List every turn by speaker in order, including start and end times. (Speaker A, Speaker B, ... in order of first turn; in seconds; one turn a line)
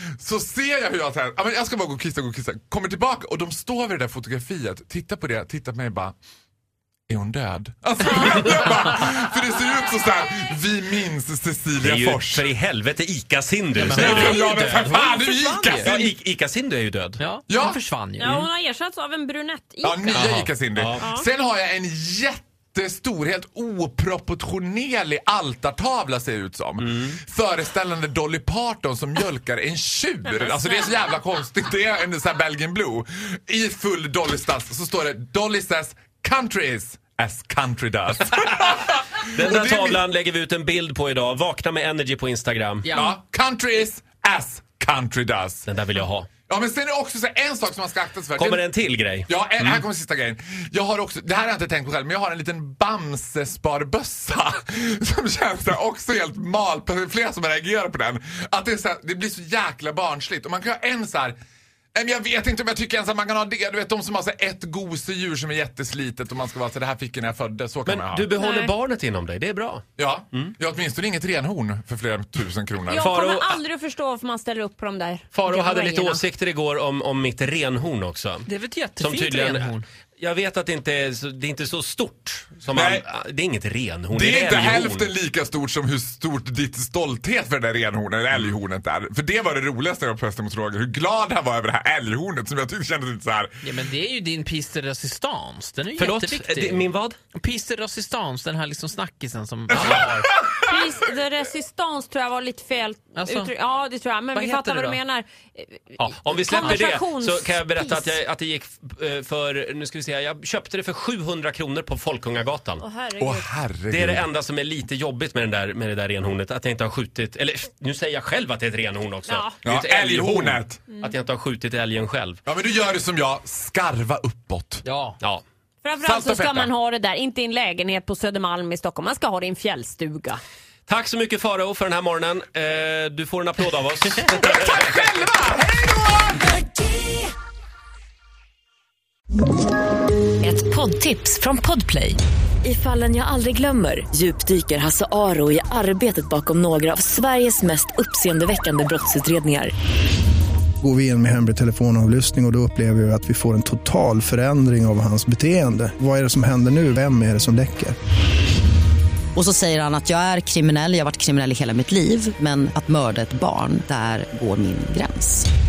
Speaker A: 0.2-6.2
Speaker A: 7.1-12.5
Speaker B: 11.8-14.5
Speaker C: 13.8-16.1
Speaker A: 13.9-16.1
Speaker B: 15.8-17.2
Speaker C: 17.2-18.5
Speaker A: 17.5-17.8
Speaker D: 18.2-20.3
Speaker A: 19.8-40.0
Speaker B: 20.2-21.0
Speaker D: 21.0-21.3
Speaker B: 26.8-27.2
Speaker D: 30.4-30.9
Speaker B: 39.2-42.9
Speaker C: 42.9-43.2
Speaker A: 42.9-45.7
Speaker B: 45.7-46.3
Speaker A: 46.5-48.7
Speaker B: 48.4-49.8
Speaker A: 49.2-61.4
Speaker A: 61.9-68.3
Speaker B: 67.9-69.8
Speaker D: 68.4-68.7
Speaker A: 70.0-73.1
Speaker D: 72.9-76.2
Speaker B: 73.0-73.6
Speaker B: 75.3-78.5
Speaker C: 78.5-79.8
Speaker B: 79.0-85.1
Speaker A: 82.7-83.1
Speaker A: 84.1-93.7
Speaker C: 93.6-100.4
Speaker B: 96.0-97.2
Speaker A: 99.7-101.0
Speaker D: 100.6-108.1
Speaker C: 103.2-103.5
Speaker C: 104.3-105.0
Speaker B: 106.0-112.8
Speaker D: 112.8-113.5
Speaker A: 113.2-114.3
Speaker B: 113.9-122.4
Speaker D: 119.3-119.5
Speaker A: 119.7-120.8
Speaker A: 122.5-124.9
Speaker C: 124.9-125.2
Speaker D: 125.8-130.4
Speaker A: 126.0-126.7
Speaker B: 130.9-135.0
Speaker A: 134.3-136.6
Speaker E: 140.4-149.7
Speaker F: 150.8-158.0
Speaker G: 159.3-165.5